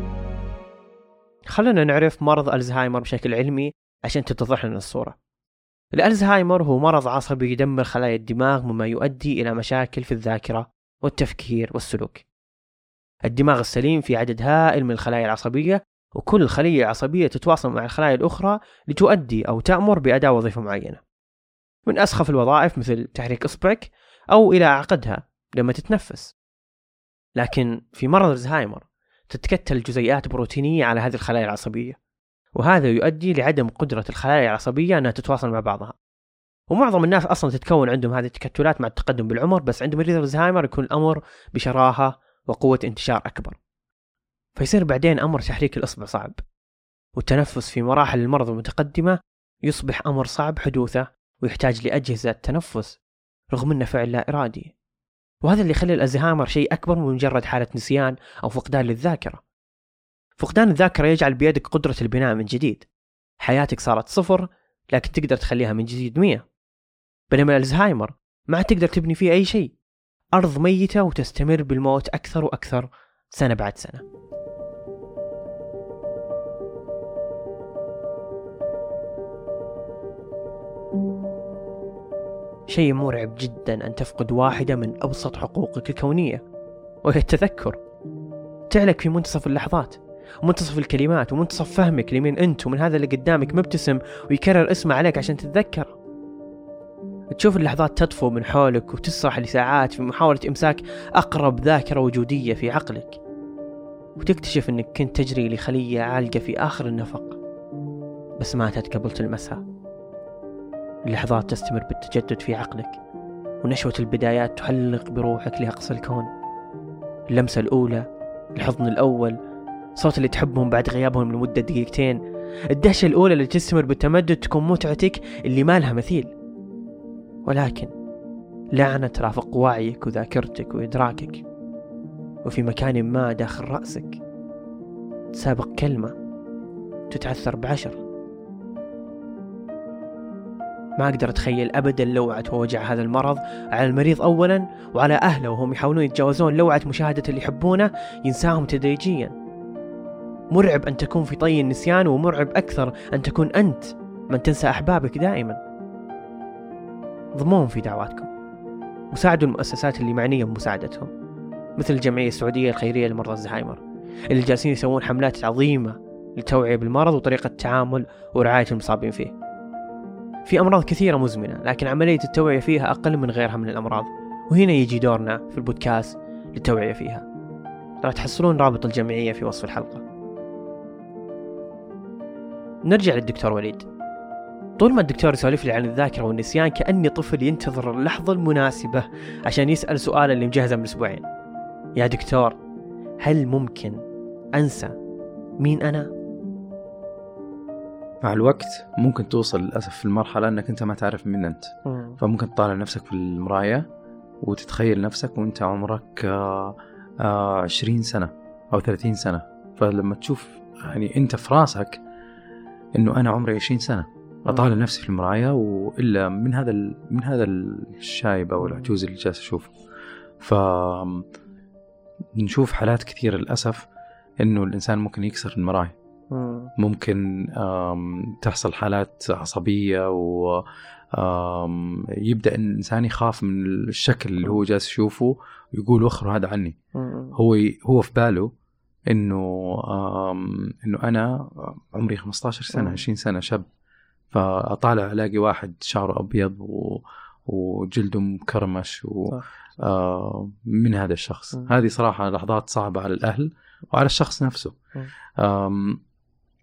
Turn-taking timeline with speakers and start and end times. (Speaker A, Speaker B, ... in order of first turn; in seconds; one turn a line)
Speaker A: 1.5-5.2
Speaker A: 6.0-12.2
Speaker A: 13.3-21.0
Speaker A: 21.9-26.3
Speaker A: 27.4-32.0
Speaker A: 32.5-36.0
Speaker A: 36.7-43.6
Speaker A: 44.6-46.4
Speaker A: 47.2-53.0
Speaker A: 53.5-54.7
Speaker A: 55.4-59.4
Speaker A: 60.4-62.9
Speaker A: 63.4-66.4
Speaker A: 67.3-69.7
Speaker A: 70.3-74.0
Speaker A: 82.7-86.4
Speaker A: 87.0-87.8
Speaker A: 88.7-96.0
Speaker A: 97.3-103.2
Speaker A: 104.2-107.4
Speaker A: 108.4-109.6
Speaker A: 111.1-113.0
Speaker A: 113.6-116.3
Speaker A: 117.3-118.0
Speaker A: 118.6-119.4
Speaker A: 120.0-122.2
Speaker A: 122.7-126.3
Speaker A: 127.5-127.9
Speaker A: 128.8-131.4
Speaker A: 132.4-134.2
Speaker A: 135.3-136.1
Speaker A: 137.1-138.0
Speaker A: 141.0-149.3
Speaker A: 150.5-155.6
Speaker A: 157.4-158.3
Speaker A: 159.1-161.1
Speaker A: 161.8-169.3
Speaker A: 170.5-177.2
Speaker A: 178.0-180.0
Speaker A: 182.8-183.9
Speaker A: 184.8-191.2
Speaker A: 192.0-192.6
Speaker A: 193.2-194.0
Speaker A: 194.6-194.9
Speaker A: 195.6-196.1
Speaker B: 198.2-203.9
Speaker A: 201.9-202.2
Speaker B: 204.4-212.0
Speaker B: 213.0-219.7
Speaker A: 218.6-218.9
Speaker B: 220.4-221.2
Speaker B: 222.4-223.9
Speaker B: 224.4-225.9
Speaker A: 226.3-226.7
Speaker B: 226.8-236.8
Speaker A: 236.9-237.4
Speaker B: 237.3-238.5
Speaker B: 239.1-243.7
Speaker A: 242.7-243.0
Speaker B: 244.3-254.8
Speaker B: 255.4-256.0